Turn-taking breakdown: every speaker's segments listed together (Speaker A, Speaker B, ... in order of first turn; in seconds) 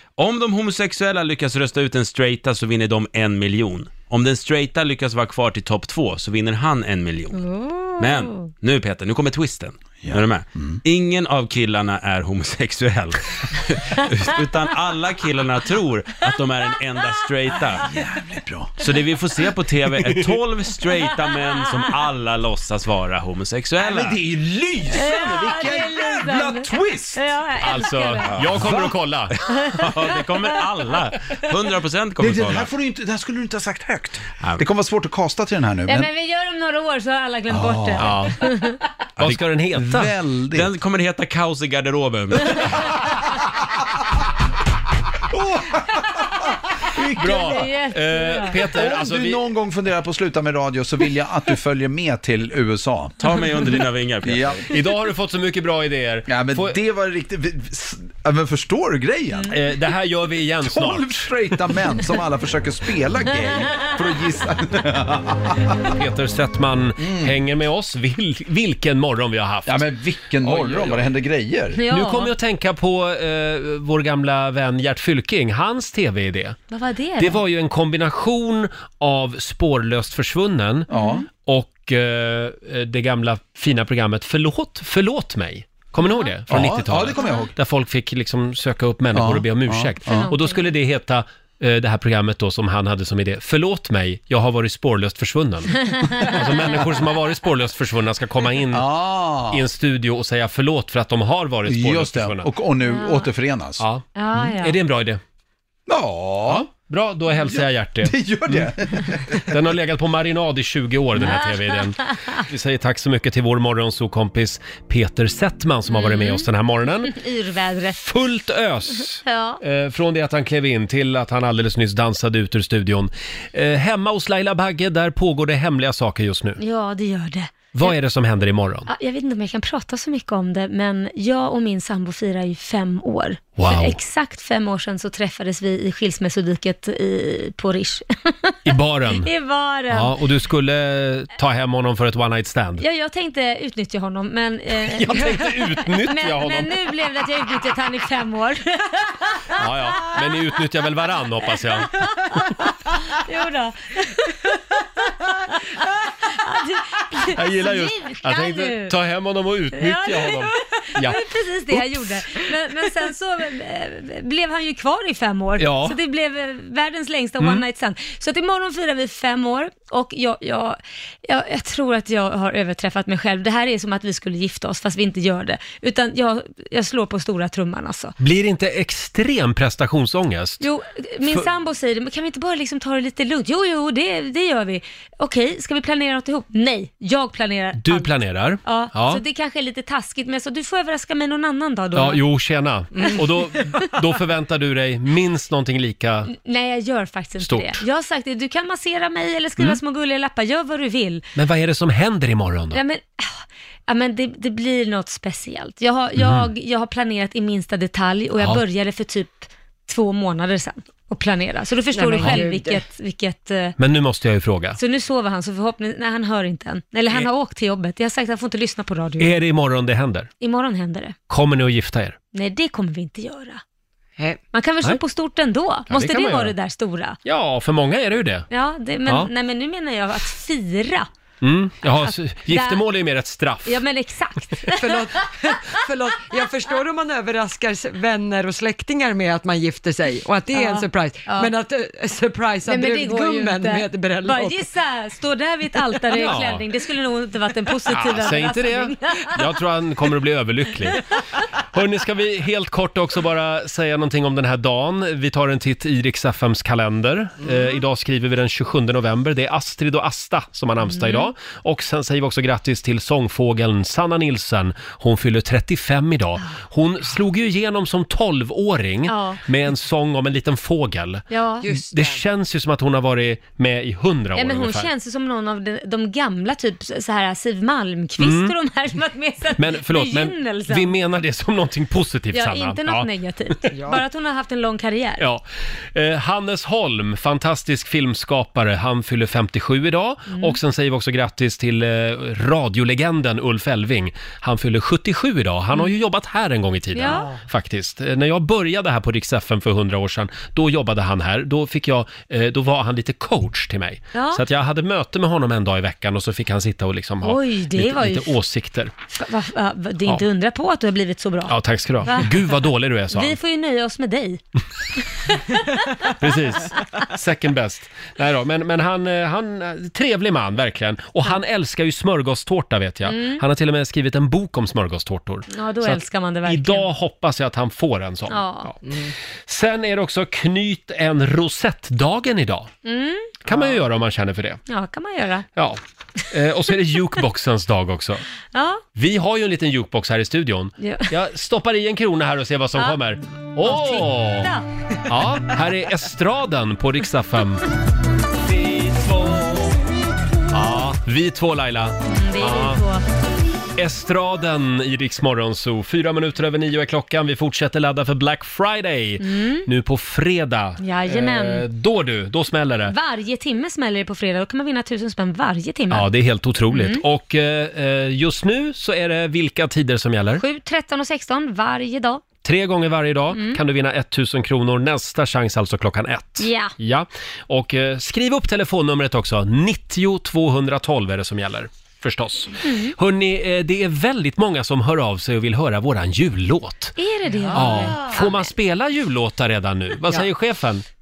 Speaker A: 0.2-7.4, 8.0-17.9, 18.8-24.2, 29.6-32.7, 40.5-42.9, 53.2-54.6
Speaker B: 7.3-8.5, 24.9-28.5, 29.6-30.4, 35.9-38.8, 47.2-48.6, 71.8-72.3, 76.7-77.4, 80.9-81.2, 86.0-86.3, 87.2-87.5, 90.0-90.6, 95.9-96.3, 102.8-103.3, 104.1-104.8, 111.2-112.4, 115.9-116.5, 117.0-118.0, 119.2-119.6, 126.6-127.9, 128.9-138.5, 139.1-140.1, 142.8-150.1, 151.9-154.3, 156.2-158.9, 159.7-178.1, 180.6-192.2, 196.3-201.2, 202.7-213.8, 214.8-219.3, 220.4-221.2, 222.3-223.6, 224.5-227.2, 228.5-231.1, 232.5-232.8, 233.6-235.1, 240.5-241.5, 242.7-249.4, 260.8-261.3, 269.1-269.4, 271.3-271.6, 274.3-280.9, 282.3-285.2, 290.3-290.6, 296.9-297.4, 304.1-304.4, 307.2-308.4, 309.1-312.5, 313.1-314.4, 315.0-316.1, 323.1-323.4, 325.5-326.9, 328.3-328.7, 332.8-333.4, 334.7-335.4, 338.5-338.8, 340.8-341.1, 343.6-344.6, 352.1-353.0, 359.2-359.7, 360.8-361.6, 362.9-366.1, 366.7-367.0, 370.4-372.2, 373.3-373.6, 376.4-376.7, 382.6-382.9, 387.0-388.5
Speaker C: 10.0-10.8, 17.8-18.8, 23.8-27.3, 28.2-29.0, 32.2-36.1, 37.5-38.1, 39.8-40.7, 45.3-47.7, 48.6-53.3, 54.2-54.6, 56.3-59.6, 60.6-65.8, 67.0-67.4, 69.7-71.8, 80.9-81.2, 86.5-87.5, 89.1-90.3, 98.7-99.6, 101.6-103.8, 105.9-106.7, 107.5-109.5
Speaker D: 27.6-29.4, 38.0-38.4, 39.2-40.1, 47.2-49.4, 54.7-56.8, 59.5-61.1, 65.8-71.1, 71.9-76.6, 77.2-80.9, 81.4-98.9, 99.5-102.5, 103.8-105.2, 106.5-108.7, 109.4-117.2, 118.0-126.6, 127.7-128.9, 133.6-134.0, 138.6-139.3, 139.9-142.8, 144.8-146.7, 149.6-151.9, 157.3-161.8, 165.6-166.0, 178.2-180.7, 187.8-189.2, 191.9-196.3, 197.4-197.8, 201.3-202.8, 206.2-206.5, 208.4-208.6, 212.2-212.4, 213.8-214.8, 219.2-220.3, 221.3-222.2, 225.9-226.6, 227.2-228.5, 229.0-229.3, 231.4-233.8, 246.1-246.7, 247.9-251.0, 251.7-274.9, 278.2-278.6, 279.6-283.9, 285.2-308.9, 311.5-313.4, 316.1-328.8, 329.5-332.7, 333.4-334.6, 336.3-338.2, 338.9-344.5, 345.1-347.6, 348.5-349.8, 350.5-352.8, 353.8-362.9, 365.9-370.4, 372.4-387.0, 387.5-390.8
Speaker E: 211.9-212.8, 234.7-244.7, 271.6-272.2, 283.7-284.0, 328.9-329.1